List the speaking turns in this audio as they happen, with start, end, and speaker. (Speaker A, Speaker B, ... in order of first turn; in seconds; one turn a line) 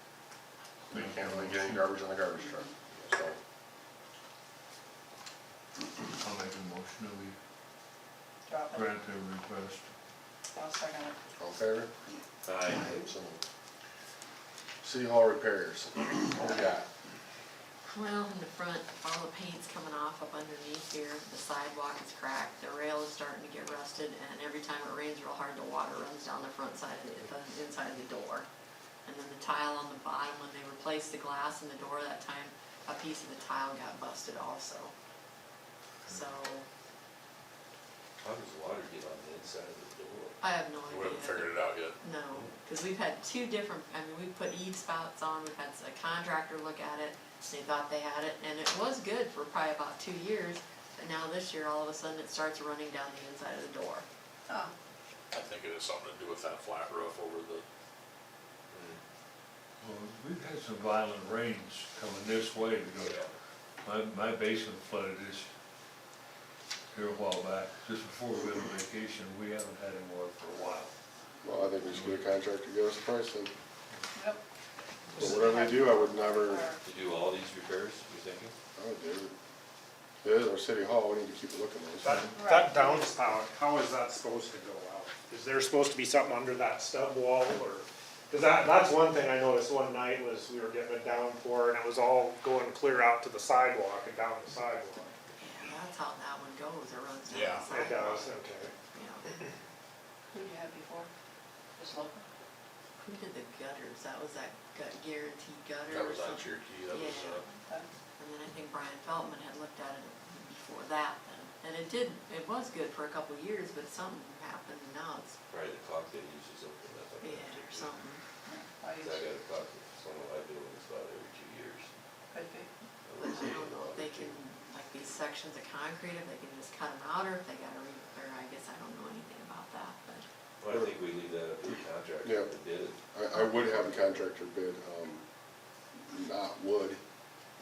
Speaker A: 0.9-2.7
Speaker B: 0.9-1.8
Speaker B: 6.1-7.3
Speaker C: 8.5-8.9
Speaker B: 8.7-9.9
Speaker C: 10.5-11.2
Speaker A: 11.4-11.9
Speaker D: 12.4-13.0
Speaker A: 12.8-13.4
Speaker A: 14.8-16.9
Speaker E: 17.8-28.4
Speaker E: 29.0-34.9
Speaker E: 36.1-36.6
Speaker D: 38.2-40.4
Speaker E: 40.4-54.0
Speaker F: 40.9-42.0
Speaker F: 55.4-57.6
Speaker D: 58.7-59.0
Speaker B: 59.8-63.2
Speaker D: 63.0-63.3
Speaker B: 63.8-65.5
Speaker B: 66.9-70.9
Speaker A: 71.4-73.5
Speaker B: 71.8-72.4
Speaker C: 74.1-74.4
Speaker A: 75.2-76.7
Speaker C: 75.2-76.8
Speaker D: 76.8-78.5
Speaker A: 78.8-79.3
Speaker A: 80.2-82.1
Speaker G: 82.0-95.1
Speaker B: 82.1-82.5
Speaker C: 82.3-83.1
Speaker E: 95.4-98.3
Speaker F: 97.3-97.6
Speaker G: 97.6-98.7
Speaker E: 98.9-99.4
Speaker C: 100.3-101.1
Speaker C: 101.8-102.2
Speaker E: 103.0-107.4
Speaker F: 105.9-107.4
Speaker C: 107.6-107.9
Speaker E: 108.2-115.4
Speaker D: 115.5-117.9
Speaker E: 117.2-118.2
Speaker C: 118.4-119.2
Speaker D: 119.0-121.9
Speaker C: 122.3-122.7
Speaker D: 123.0-124.3
Speaker E: 123.2-130.2
Speaker D: 130.6-133.0
Speaker A: 132.2-132.5
Speaker A: 133.1-135.2
Speaker A: 136.1-137.0